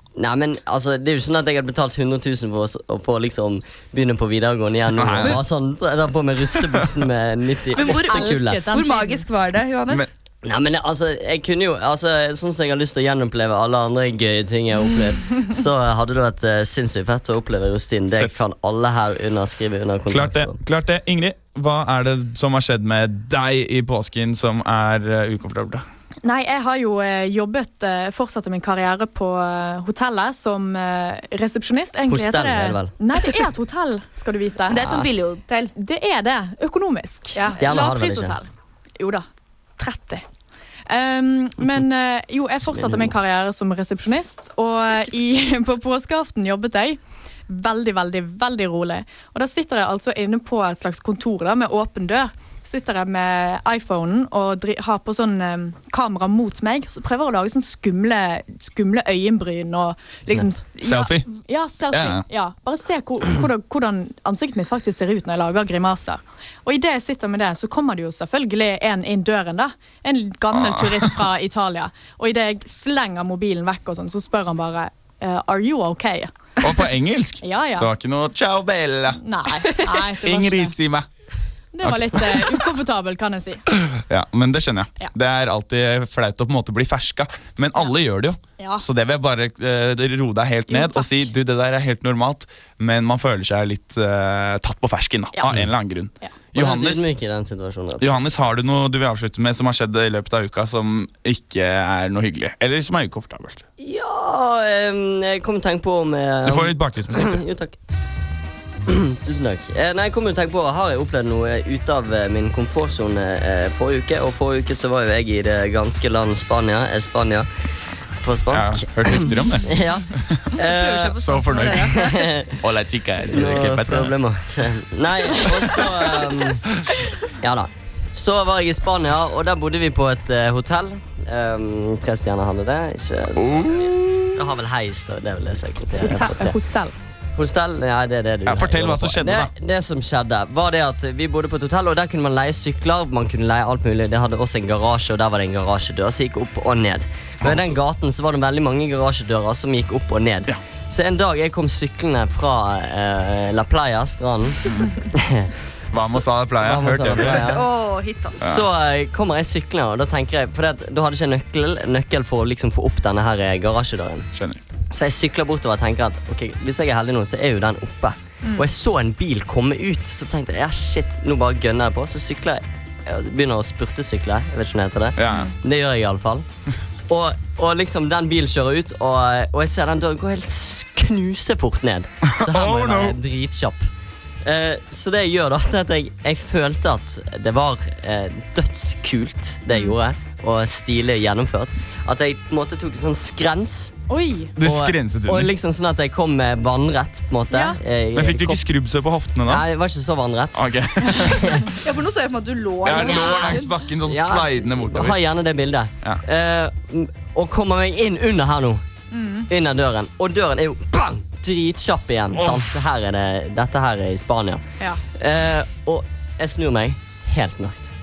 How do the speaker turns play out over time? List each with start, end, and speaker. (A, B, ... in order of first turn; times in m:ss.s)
0:00.2-0:08.7 A
0:04.9-0:05.4 B
0:07.7-0:10.1 C
0:07.8-0:09.2 D
0:10.4-0:20.6 A
0:18.1-0:18.4 B
0:20.1-0:25.8 B
0:26.2-0:34.9 D
0:32.1-0:32.9 A
0:34.7-0:35.7 C
0:34.8-0:35.1 A
0:35.8-0:38.5 D
0:37.5-0:38.4 A
0:39.0-0:39.3 D
0:39.8-0:40.2 D
0:40.9-1:16.3 D
0:42.6-0:43.1 A
1:00.3-1:01.3 B
1:01.9-1:02.2 B
1:10.5-1:11.3 B
1:16.6-1:19.2 B
1:17.4-1:17.9 D
1:19.2-1:20.8 D
1:20.2-1:21.1 B
1:21.7-1:23.6 D
1:21.8-1:22.5 B
1:23.7-1:37.0 B
1:28.6-1:28.9 D
1:30.7-1:31.3 D
1:35.3-1:35.6 D
1:36.6-1:38.3 A
1:38.0-1:43.6 B
1:43.8-1:47.8 A
1:46.4-1:47.4 B
1:48.9-1:57.5 A
1:58.2-2:02.6 A
1:58.5-2:00.5 B
2:00.6-2:02.2 C
2:01.2-2:02.1 B
2:02.6-2:04.2 B
2:03.2-2:16.6 A
2:05.5-2:06.2 B
2:13.4-2:14.4 B
2:16.0-2:16.9 D
2:17.4-2:37.7 A
2:18.4-2:19.5 B
2:27.4-2:27.7 B
2:34.7-2:34.9 B
2:35.9-2:37.5 B
2:37.4-2:38.4 C
2:38.4-2:44.3 A
2:38.4-2:38.7 B
2:44.3-2:44.6 B
2:44.9-2:56.5 A
2:55.2-2:55.5 B
2:57.1-3:03.9 A
3:02.3-3:03.2 B
3:04.4-3:14.0 A
3:09.7-3:10.0 D
3:14.1-3:14.5 D
3:14.6-3:15.5 B
3:14.6-3:18.6 A
3:17.5-3:17.8 D
3:18.1-3:19.6 B
3:19.5-3:20.6 A
3:20.5-3:21.7 B
3:21.2-3:21.7 A
3:21.8-3:23.7 C
3:22.8-3:25.2 B
3:23.2-3:28.8 A
3:29.1-3:29.5 D
3:29.5-3:37.9 A
3:32.3-3:32.9 B